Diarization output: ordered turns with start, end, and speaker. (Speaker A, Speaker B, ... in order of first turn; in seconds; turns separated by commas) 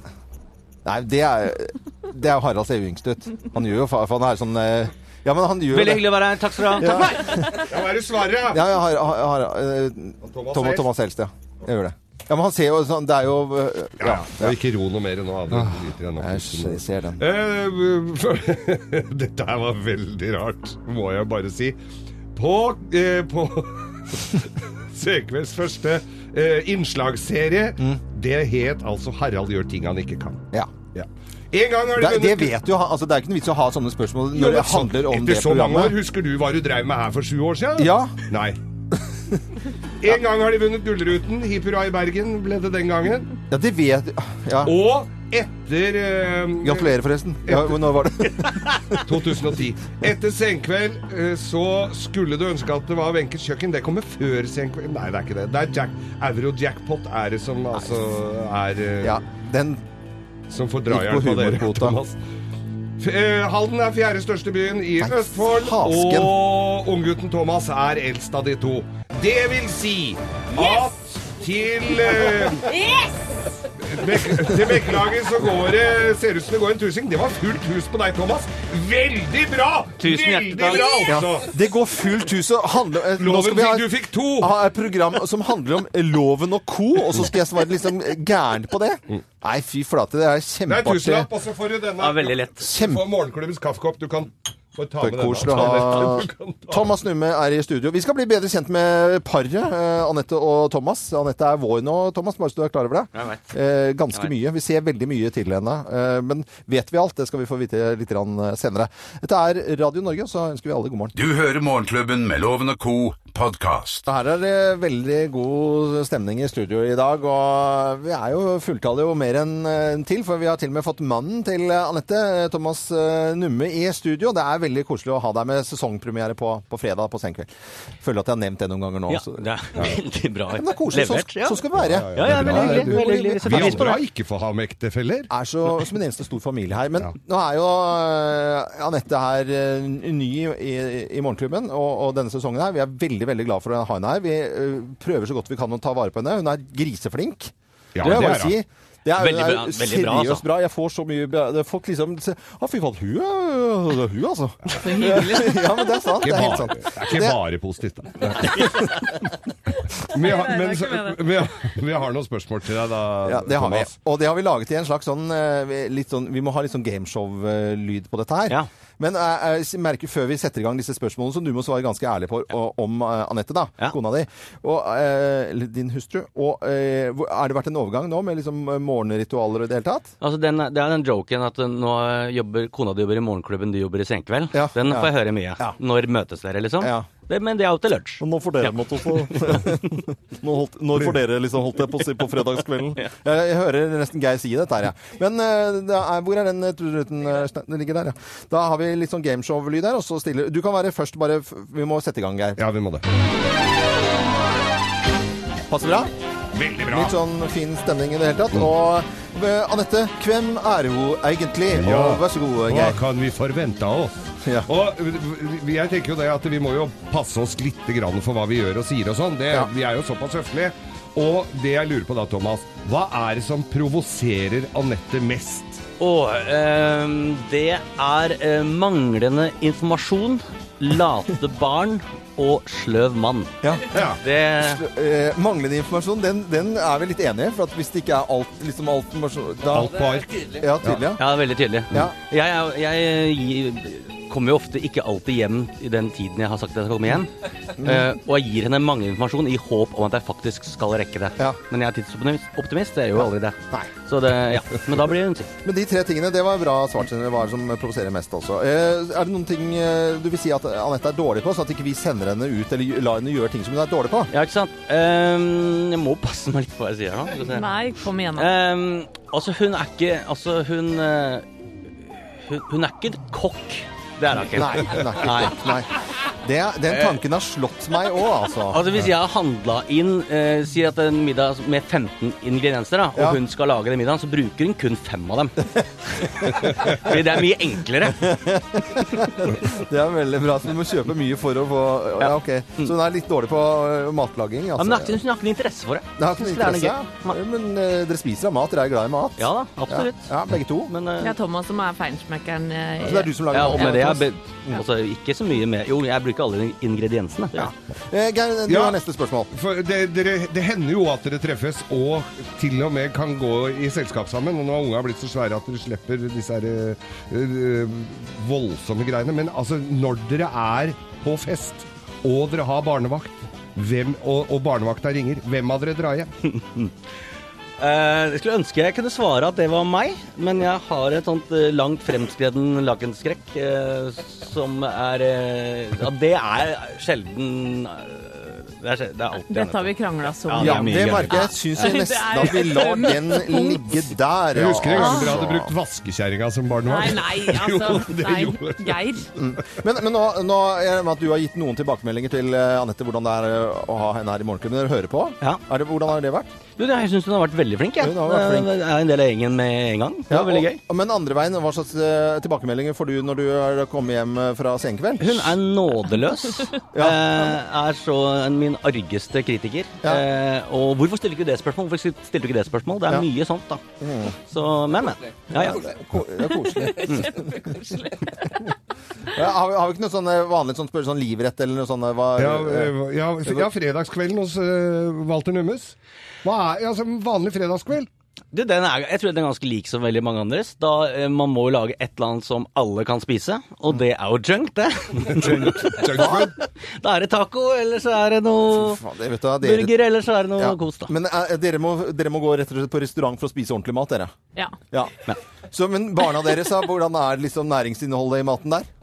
Speaker A: 0.8-7.6, Speaker B: 5.7-7.3, Speaker C: 7.4-8.7, Speaker A: 8.5-14.6, Speaker C: 10.2-10.9, Speaker C: 14.0-21.8, Speaker A: 15.5-17.2, Speaker C: 22.4-30.4, Speaker C: 30.9-32.6, Speaker A: 31.9-36.0, Speaker C: 34.3-38.6, Speaker A: 37.8-38.2, Speaker C: 40.0-43.3, Speaker A: 43.5-44.8, Speaker C: 44.6-46.9, Speaker A: 46.6-48.8, Speaker C: 47.4-48.1, Speaker B: 48.5-49.0, Speaker C: 49.0-59.2, Speaker A: 59.0-59.8, Speaker C: 60.5-62.2, Speaker A: 60.9-62.0, Speaker C: 63.0-72.7, Speaker A: 65.0-66.4, Speaker D: 72.7-73.0, Speaker C: 73.8-81.5, Speaker B: 80.0-81.1, Speaker A: 81.0-91.3, Speaker C: 83.2-84.5, Speaker C: 90.7-96.9, Speaker B: 92.0-92.7, Speaker A: 92.6-93.0, Speaker A: 95.0-111.1, Speaker B: 103.1-103.4, Speaker E: 111.1-114.0, Speaker A: 114.1-127.5, Speaker A: 128.0-129.9, Speaker B: 129.1-134.0, Speaker A: 130.5-134.0, Speaker C: 131.8-135.3, Speaker A: 135.3-157.4, Speaker C: 147.9-148.6, Speaker B: 148.0-148.4, Speaker B: 149.1-150.4, Speaker D: 154.7-156.2, Speaker C: 156.2-158.8, Speaker C: 160.1-163.9, Speaker D: 160.1-161.2, Speaker A: 163.2-180.1, Speaker B: 180.2-190.0, Speaker A: 184.5-185.8, Speaker A: 186.8-187.1, Speaker A: 188.2-202.6, Speaker C: 202.6-203.0, Speaker A: 205.7-206.1, Speaker C: 206.5-207.2, Speaker A: 206.9-213.0, Speaker C: 211.7-225.8, Speaker A: 214.4-214.7, Speaker B: 226.0-233.6, Speaker A: 233.6-234.1, Speaker C: 233.9-234.2, Speaker B: 234.2-234.8, Speaker A: 234.6-241.2, Speaker C: 239.7-241.1, Speaker B: 241.2-247.3, Speaker A: 247.8-248.1, Speaker B: 247.8-255.5, Speaker A: 255.6-264.3, Speaker B: 264.3-267.7, Speaker D: 267.5-268.5, Speaker B: 268.4-271.4, Speaker B: 272.0-275.7, Speaker A: 274.5-278.8, Speaker B: 276.9-277.2, Speaker B: 278.7-285.6, Speaker A: 286.2-287.1, Speaker B: 286.8-288.3, Speaker A: 288.1-295.2, Speaker B: 292.2-292.9, Speaker B: 294.8-297.4, Speaker A: 296.2-300.9, Speaker B: 299.4-300.3, Speaker B: 300.9-301.3, Speaker D: 301.2-304.2, Speaker A: 303.0-304.8, Speaker B: 303.5-307.7, Speaker A: 307.5-309.5, Speaker C: 308.7-309.0, Speaker C: 309.5-326.3, Speaker B: 326.4-326.9, Speaker B: 327.8-339.9, Speaker D: 339.5-343.9, Speaker B: 340.5-342.0, Speaker A: 340.6-345.7, Speaker C: 344.5-349.1, Speaker D: 344.9-345.4, Speaker D: 346.8-349.3, Speaker A: 349.4-356.5, Speaker B: 356.8-360.8, Speaker A: 358.0-358.7, Speaker A: 360.3-365.5, Speaker B: 365.2-373.8, Speaker A: 366.9-367.5, Speaker A: 374.0-374.4, Speaker B: 374.4-375.9, Speaker A: 375.5-377.7, Speaker D: 376.6-378.6, Speaker A: 379.3-382.9, Speaker C: 382.4-388.1, Speaker B: 388.5-396.4, Speaker C: 395.3-396.5, Speaker A: 396.1-396.5, Speaker B: 397.0-399.0, Speaker A: 398.7-399.9, Speaker B: 399.6-401.1, Speaker A: 400.5-404.3, Speaker A: 404.9-408.9